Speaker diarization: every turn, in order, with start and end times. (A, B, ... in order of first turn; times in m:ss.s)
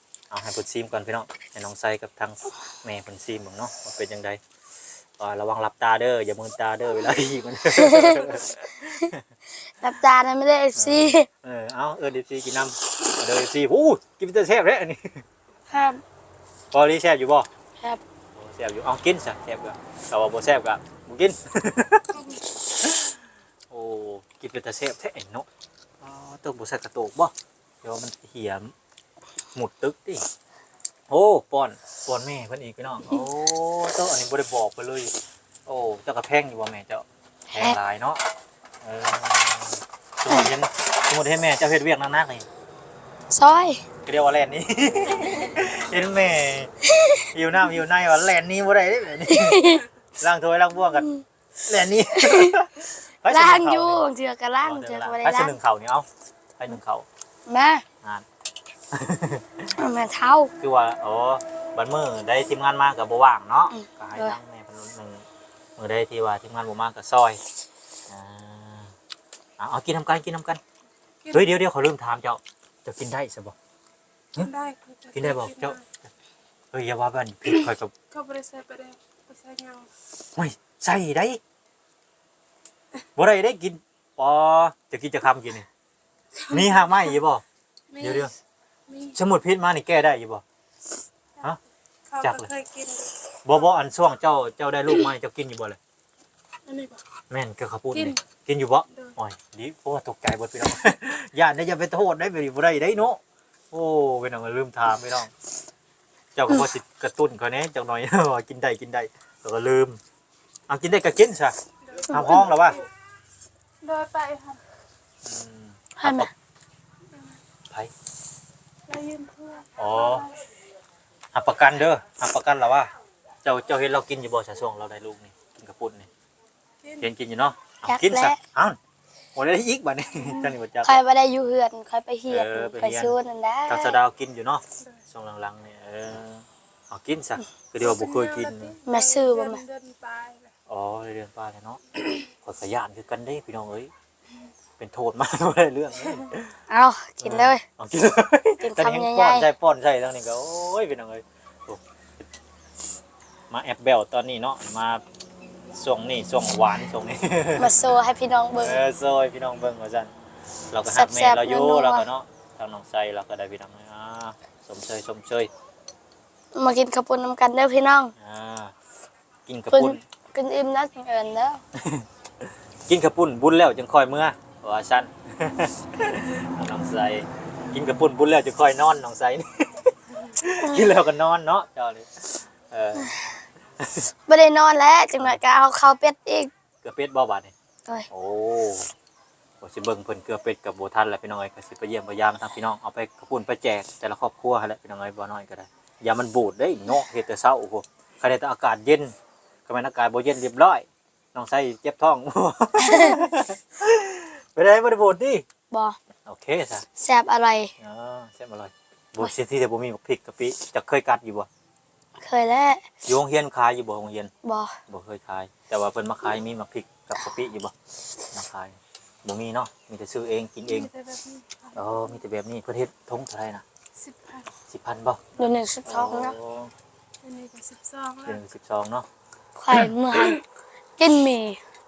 0:00.3-0:04.4 A
0:05.2-0:09.2 A
0:07.8-0:08.3 B
0:09.8-0:11.3 B
0:10.8-0:15.2 A
0:15.7-0:16.0 B
0:16.7-0:17.5 A
0:18.3-0:23.2 A
0:23.7-0:25.5 A
0:26.0-0:28.7 A
0:29.5-0:30.2 A
0:31.1-0:35.1 A
0:35.6-0:38.2 A
0:38.8-0:42.4 A
0:43.3-0:43.8 B
0:44.0-0:51.1 A
0:49.3-0:49.8 B
0:51.6-0:54.0 A
0:52.1-0:52.6 B
0:53.3-0:55.6 B
0:54.6-0:56.0 A
0:56.6-0:57.0 A
0:57.5-0:57.8 B
0:58.9-0:59.7 A
0:59.8-1:00.5 B
1:00.6-1:05.2 A
1:03.7-1:04.4 B
1:05.8-1:07.4 A
1:08.1-1:08.9 A
1:09.6-1:10.6 A
1:11.3-1:13.5 A
1:14.4-1:15.8 C
1:15.1-1:15.8 A
1:16.7-1:17.9 A
1:18.1-1:19.9 C
1:20.4-1:21.4 A
1:23.2-1:25.7 A
1:26.4-1:27.4 A
1:27.9-1:28.3 C
1:28.0-1:28.3 A
1:28.9-1:29.1 C
1:29.1-1:30.4 A
1:32.1-1:33.1 C
1:32.2-1:32.5 A
1:33.4-1:35.8 A
1:36.7-1:37.0 C
1:37.3-1:43.2 A
1:43.7-1:45.3 A
1:46.3-1:50.0 A
1:50.7-1:51.5 A
1:52.1-1:52.8 A
1:53.8-1:54.6 C
1:55.2-1:56.3 A
1:56.0-1:56.3 B
1:58.9-2:00.2 C
1:59.8-2:00.3 A
2:01.3-2:02.9 A
2:03.4-2:06.1 A
2:07.0-2:08.8 A
2:07.8-2:08.4 B
2:09.4-2:11.0 A
2:10.8-2:14.0 B
2:12.3-2:13.1 A
2:13.7-2:18.8 A
2:17.8-2:20.5 C
2:18.8-2:19.6 B
2:20.7-2:23.9 A
2:24.8-2:26.6 A
2:26.7-2:27.6 B
2:27.2-2:31.8 A
2:28.6-2:29.5 B
2:33.5-2:35.0 A
2:35.7-2:37.7 A
2:37.6-2:38.8 B
2:38.6-2:40.1 A
2:40.7-2:45.5 A
2:40.9-2:42.1 B
2:46.5-2:48.1 B
2:48.2-2:48.7 A
2:49.4-2:50.0 A
2:49.7-2:51.6 B
2:51.8-2:52.0 A
2:52.9-3:03.1 A
3:00.6-3:00.9 B
3:03.8-3:04.1 A
3:04.3-3:06.5 B
3:06.8-3:07.5 A
3:08.1-3:08.9 A
3:09.6-3:19.1 A
3:19.7-3:25.4 A
3:22.8-3:23.2 B
3:25.7-3:26.0 B
3:26.2-3:26.8 A
3:27.0-3:27.7 B
3:27.8-3:31.5 A
3:32.2-3:32.8 B
3:33.0-3:34.3 A
3:34.4-3:34.8 B
3:34.9-3:37.7 A
3:38.3-3:40.9 A
3:40.7-3:42.0 C
3:41.7-3:43.6 A
3:44.0-3:44.5 C
3:44.7-3:45.2 A
3:45.4-3:46.3 B
3:45.8-3:46.7 A
3:47.2-3:48.4 C
3:48.2-3:49.0 A
3:49.6-3:50.4 B
3:51.0-3:51.6 B